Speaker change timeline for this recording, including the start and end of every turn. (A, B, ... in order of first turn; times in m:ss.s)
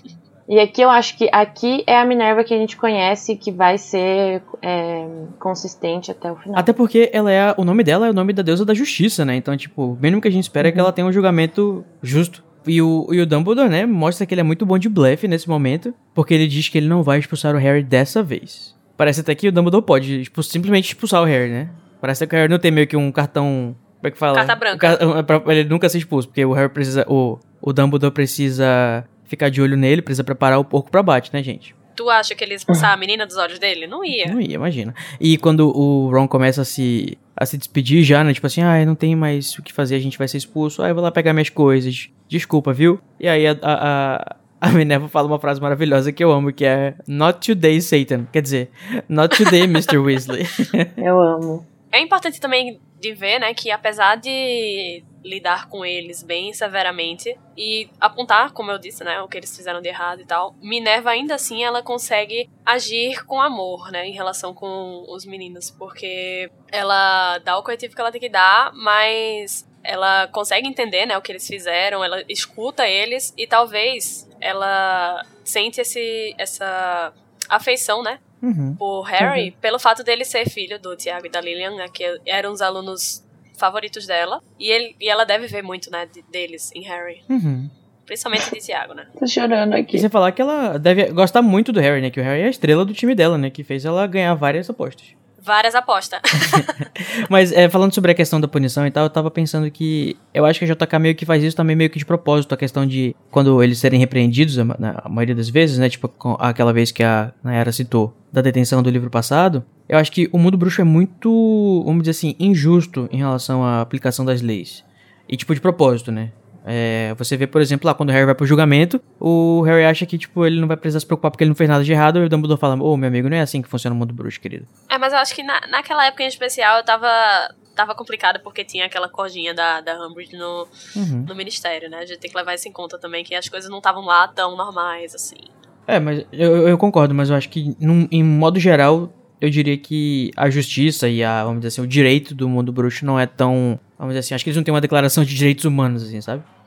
0:00.5-0:06.7 A
0:06.5-0:31.7 B
0:10.6-0:10.9 A
0:24.3-0:25.0 C
0:32.0-0:34.4 C
0:34.1-0:51.0 B
0:51.0-0:51.7 A
0:51.9-1:18.2 C
1:18.4-1:18.8 B
1:18.8-1:27.2 C
1:19.2-1:19.5 A
1:27.3-1:27.7 B
1:28.0-1:29.1 C
1:29.2-1:30.0 A
1:29.9-1:35.1 B
1:35.4-1:36.8 C
1:36.5-2:04.7 B
2:04.9-2:10.7 C
2:10.9-2:11.3 B
2:11.3-2:15.5 C
2:15.9-2:26.4 B